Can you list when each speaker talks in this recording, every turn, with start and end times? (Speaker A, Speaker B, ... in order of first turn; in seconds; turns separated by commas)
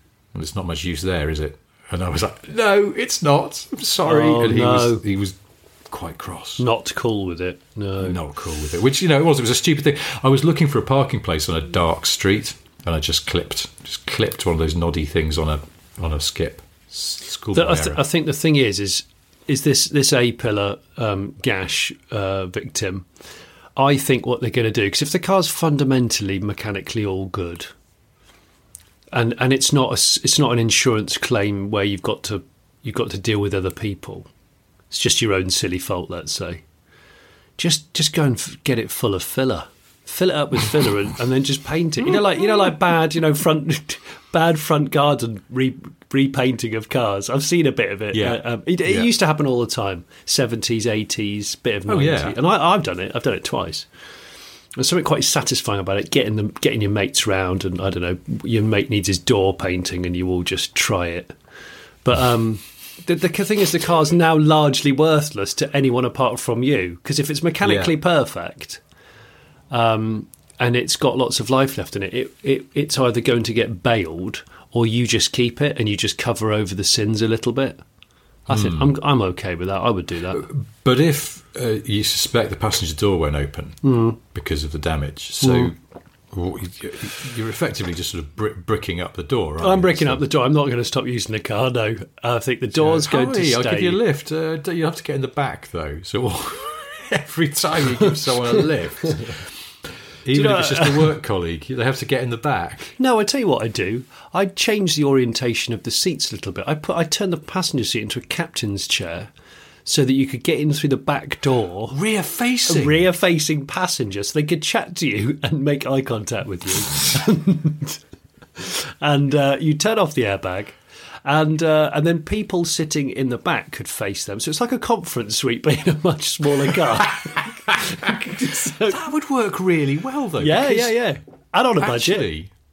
Speaker A: 0.3-5.4, Speaker B: 4.0-5.0, Speaker A: 5.9-6.7, Speaker B: 6.6-8.2, Speaker A: 8.0-18.0, Speaker B: 17.5-23.1, Speaker B: 23.8-27.7, Speaker B: 29.1-34.3, Speaker B: 34.9-36.6, Speaker B: 37.6-53.9, Speaker A: 42.1-42.7, Speaker A: 48.1-49.1, Speaker A: 51.9-52.4, Speaker B: 54.8-61.3, Speaker B: 62.0-68.8, Speaker A: 67.6-67.9, Speaker B: 69.7-77.8, Speaker A: 78.5-79.0, Speaker B: 78.5-80.4, Speaker A: 80.3-85.8, Speaker B: 83.8-84.2, Speaker B: 85.4-85.7, Speaker A: 86.3-90.2, Speaker B: 89.6-94.0, Speaker A: 92.8-99.5, Speaker A: 100.2-103.0, Speaker B: 100.3-101.2, Speaker B: 103.0-109.3, Speaker B: 109.9-112.0, Speaker A: 111.9-113.1, Speaker B: 112.7-118.0, Speaker B: 118.6-129.0, Speaker A: 128.9-131.0, Speaker B: 130.4-132.3, Speaker A: 131.8-132.5